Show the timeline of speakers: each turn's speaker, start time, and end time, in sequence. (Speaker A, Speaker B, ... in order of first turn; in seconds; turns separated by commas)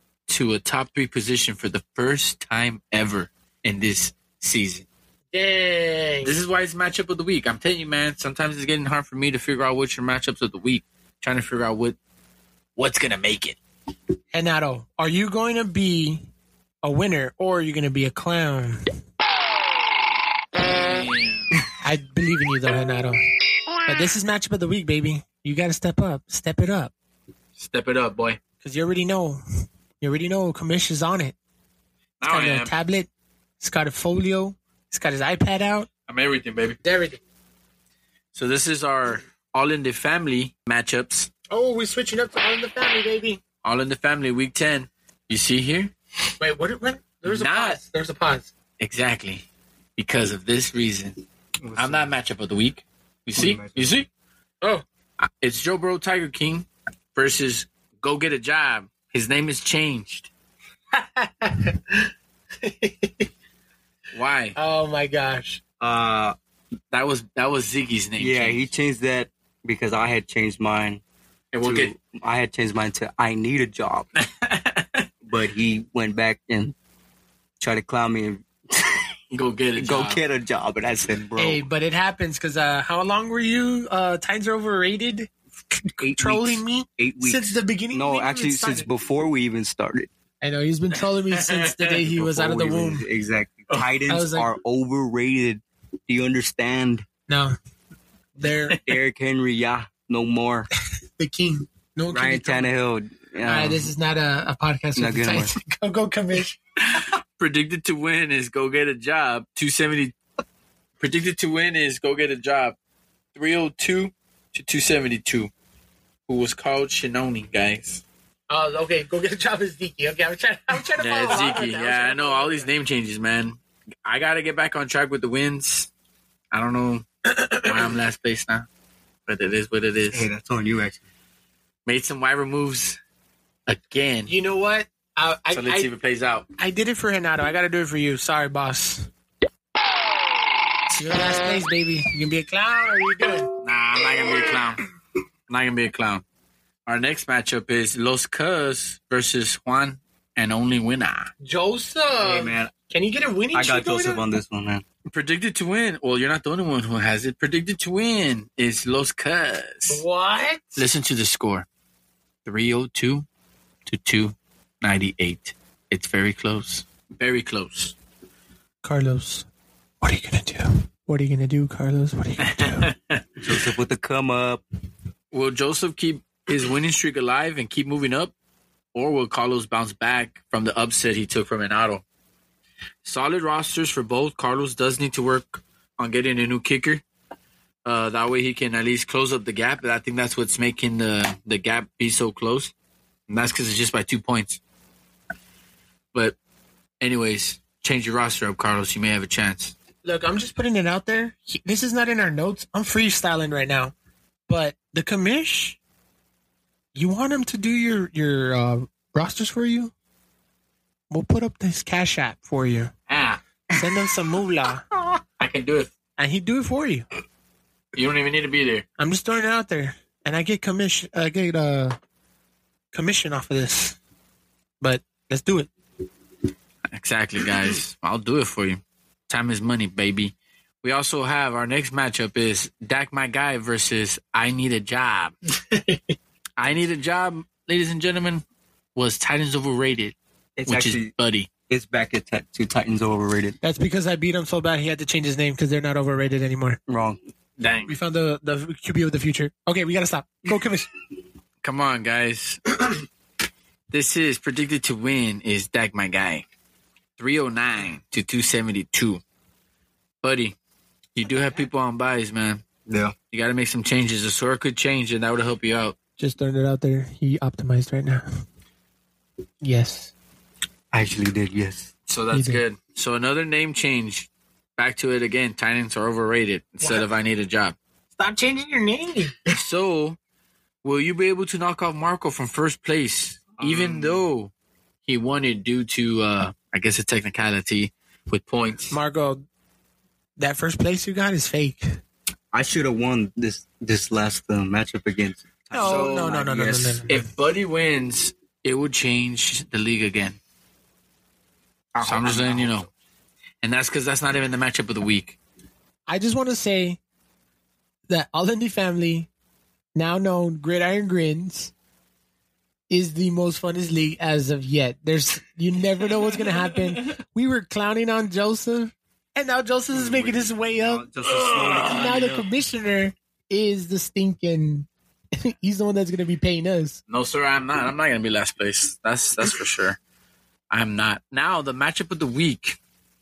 Speaker A: 0.3-4.8, Speaker B: 5.3-6.4, Speaker A: 6.2-12.0, Speaker A: 12.8-13.6, Speaker B: 14.3-16.2, Speaker B: 16.8-18.8, Speaker A: 20.7-21.6, Speaker B: 21.8-23.2, Speaker B: 23.9-26.9, Speaker A: 27.6-28.4, Speaker B: 28.6-29.4, Speaker B: 30.0-31.4, Speaker A: 32.2-32.7, Speaker B: 32.2-33.1, Speaker B: 33.6-35.9, Speaker A: 36.1-36.8, Speaker B: 36.8-37.2, Speaker A: 38.3-41.3, Speaker B: 41.5-43.4, Speaker A: 43.6-45.9, Speaker B: 46.4-48.5, Speaker A: 47.2-47.8, Speaker A: 48.8-49.4, Speaker A: 50.0-51.2, Speaker C: 51.6-52.1, Speaker A: 51.8-54.1, Speaker C: 53.4-54.0, Speaker A: 55.2-60.3, Speaker B: 60.9-62.0, Speaker B: 62.6-63.3, Speaker A: 64.1-64.5, Speaker B: 64.5-65.6, Speaker C: 65.8-66.3, Speaker A: 66.9-68.6, Speaker C: 68.2-71.0, Speaker A: 71.5-71.9, Speaker C: 71.6-74.1, Speaker A: 74.3-75.0, Speaker C: 75.2-76.7, Speaker C: 77.6-79.1, Speaker A: 79.3-80.2, Speaker C: 79.8-81.6, Speaker B: 81.4-85.3, Speaker B: 86.0-88.9, Speaker C: 86.0-90.1, Speaker B: 90.4-93.0, Speaker A: 91.3-91.9, Speaker C: 92.0-97.0, Speaker B: 94.1-94.5, Speaker B: 97.3-97.5, Speaker B: 98.3-98.8, Speaker C: 98.8-100.7, Speaker B: 101.2-102.7, Speaker C: 102.1-103.9, Speaker B: 103.4-106.6, Speaker C: 105.0-105.5, Speaker A: 106.8-110.1, Speaker A: 111.0-112.8, Speaker A: 113.3-115.5, Speaker A: 116.3-118.0, Speaker B: 118.5-122.7, Speaker A: 121.0-125.9, Speaker A: 126.5-127.0, Speaker B: 127.3-127.9, Speaker A: 127.6-128.7, Speaker A: 129.3-130.3, Speaker C: 130.1-131.0, Speaker A: 131.8-133.0, Speaker A: 133.7-134.3, Speaker B: 134.3-135.9, Speaker A: 135.5-136.4, Speaker B: 136.6-139.1, Speaker B: 140.9-143.5, Speaker A: 143.6-144.8, Speaker A: 145.5-146.2, Speaker A: 146.8-151.3, Speaker B: 151.4-154.2, Speaker C: 152.2-152.7, Speaker C: 153.5-154.8, Speaker A: 155.1-160.0, Speaker B: 159.9-160.8, Speaker A: 160.8-161.7, Speaker A: 162.4-163.2, Speaker A: 163.8-167.9, Speaker B: 168.8-169.5, Speaker B: 170.0-172.9, Speaker A: 172.4-173.2, Speaker C: 173.4-174.6, Speaker A: 175.3-178.3, Speaker A: 178.9-182.0, Speaker A: 183.0-187.0, Speaker A: 187.8-192.7, Speaker A: 193.3-194.6, Speaker A: 197.0-199.7, Speaker B: 200.0-203.9, Speaker B: 204.5-205.8, Speaker B: 206.9-209.9, Speaker B: 211.1-212.9, Speaker A: 213.1-213.4, Speaker B: 213.8-214.8, Speaker A: 215.4-215.9, Speaker B: 216.2-217.0, Speaker A: 217.9-218.8, Speaker B: 219.0-222.0, Speaker B: 222.9-224.0, Speaker B: 224.8-225.7, Speaker A: 226.9-235.3, Speaker B: 235.7-236.1, Speaker A: 236.6-238.4, Speaker A: 238.9-241.5, Speaker C: 240.6-241.1, Speaker C: 241.7-243.6, Speaker B: 243.6-246.8, Speaker C: 246.9-247.2, Speaker A: 247.6-247.9, Speaker B: 247.9-250.9, Speaker A: 251.6-252.9, Speaker A: 253.9-256.4, Speaker A: 257.2-259.2, Speaker A: 260.2-260.6, Speaker A: 261.1-262.6, Speaker C: 262.9-263.1, Speaker A: 263.3-265.9, Speaker B: 266.2-268.2, Speaker B: 269.6-270.1, Speaker C: 270.9-271.9, Speaker A: 272.1-277.8, Speaker B: 272.3-272.6, Speaker B: 276.8-277.1, Speaker B: 278.2-279.4, Speaker A: 279.5-280.2, Speaker A: 280.8-284.5, Speaker C: 283.6-284.2, Speaker A: 285.1-288.9, Speaker B: 288.9-289.4, Speaker B: 290.4-291.9, Speaker C: 292.5-297.1, Speaker B: 295.7-297.2, Speaker A: 295.8-296.4, Speaker A: 297.1-300.4, Speaker C: 301.9-302.9, Speaker A: 302.0-302.9, Speaker A: 303.6-305.4, Speaker B: 306.1-307.0, Speaker B: 308.1-309.3, Speaker B: 309.9-311.7, Speaker B: 312.9-321.1, Speaker C: 319.9-322.5, Speaker A: 321.3-322.0, Speaker B: 321.8-327.0, Speaker A: 327.1-330.0, Speaker A: 330.7-332.8